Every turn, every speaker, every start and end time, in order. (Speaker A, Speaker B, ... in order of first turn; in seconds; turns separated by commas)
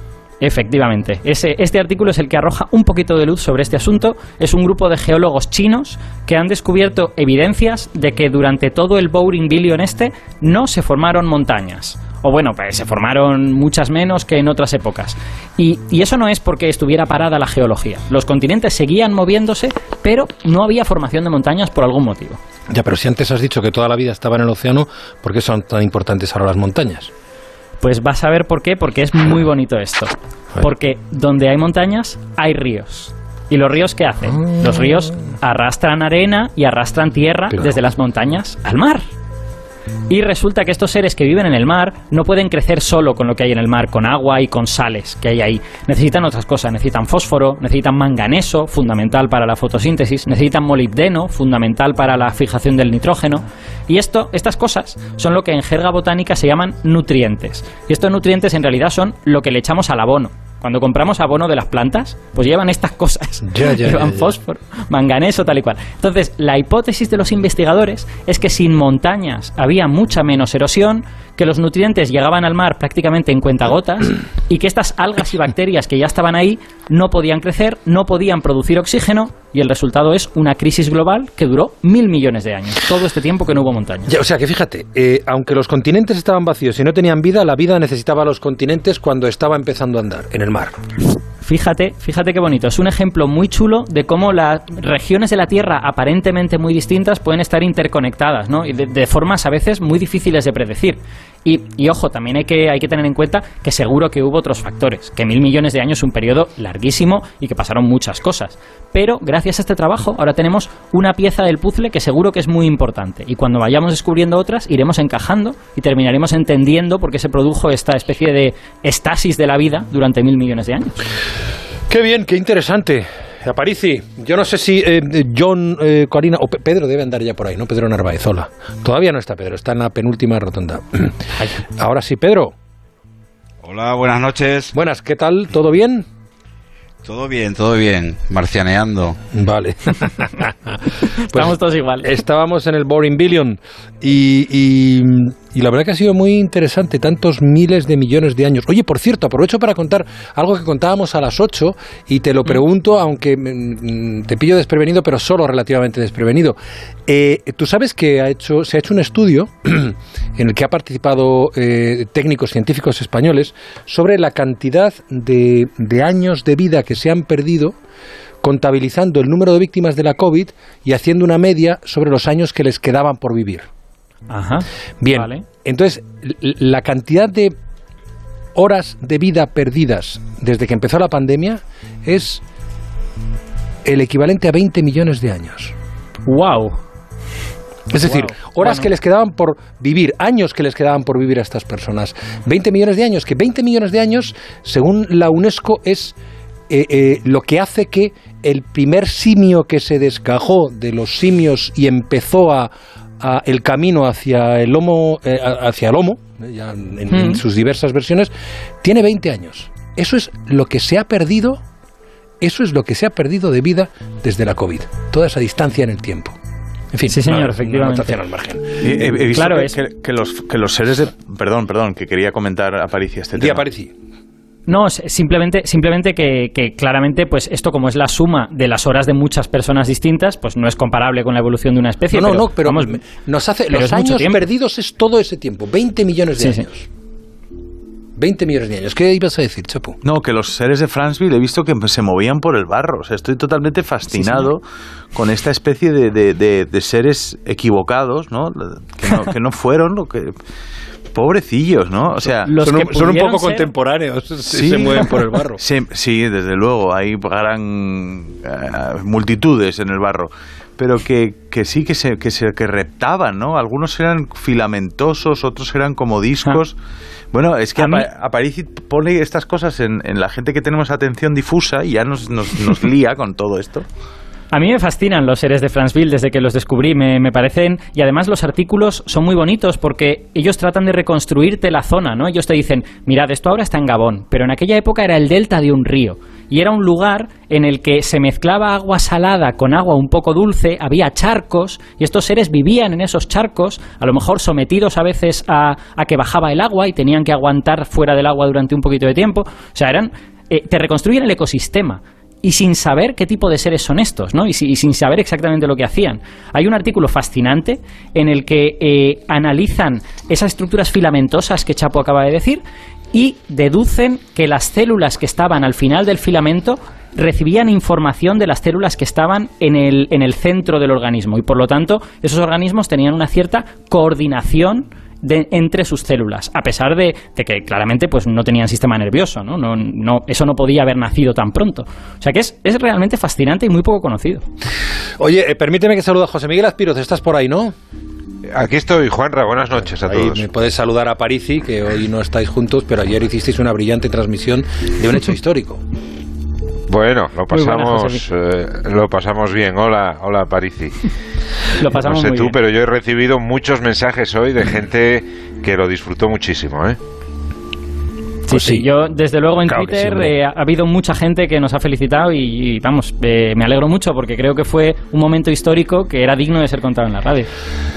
Speaker A: 0.4-22.4, Speaker B: 22.7-27.1, Speaker A: 27.8-39.0, Speaker A: 40.1-84.1, Speaker B: 63.4-64.3, Speaker B: 84.1-90.8, Speaker A: 91.4-121.0, Speaker B: 121.9-132.5, Speaker C: 133.6-134.7, Speaker B: 134.7-136.0, Speaker C: 137.0-139.2, Speaker B: 139.3-140.8, Speaker A: 140.9-142.1, Speaker B: 141.3-167.7, Speaker B: 168.4-173.7, Speaker A: 174.3-175.4, Speaker B: 175.0-177.5, Speaker B: 178.5-182.4, Speaker B: 183.8-185.7, Speaker A: 186.2-186.8, Speaker B: 187.9-196.2, Speaker A: 188.0-188.9, Speaker B: 196.7-208.3, Speaker A: 207.1-207.4, Speaker B: 208.8-211.6, Speaker B: 212.4-216.3, Speaker B: 216.9-219.2, Speaker A: 217.1-218.2, Speaker D: 218.8-223.6, Speaker A: 219.3-219.8, Speaker B: 223.3-223.9, Speaker A: 224.7-233.0, Speaker B: 232.1-236.8, Speaker A: 233.7-234.4, Speaker A: 236.4-236.6, Speaker B: 238.2-240.0, Speaker D: 240.0-244.6, Speaker A: 244.2-244.5, Speaker D: 245.1-250.3, Speaker D: 251.1-252.5, Speaker A: 252.4-253.7, Speaker B: 252.5-255.6, Speaker D: 254.5-266.7, Speaker D: 267.3-273.9, Speaker A: 267.8-268.1, Speaker A: 274.5-312.6, Speaker A: 313.1-334.4, Speaker B: 335.2-337.7, Speaker E: 338.5-340.4, Speaker B: 340.1-345.8, Speaker E: 346.9-350.9, Speaker A: 347.5-348.2, Speaker A: 351.6-352.6, Speaker E: 351.9-357.0, Speaker A: 358.4-367.5, Speaker B: 358.5-358.9, Speaker B: 359.6-360.3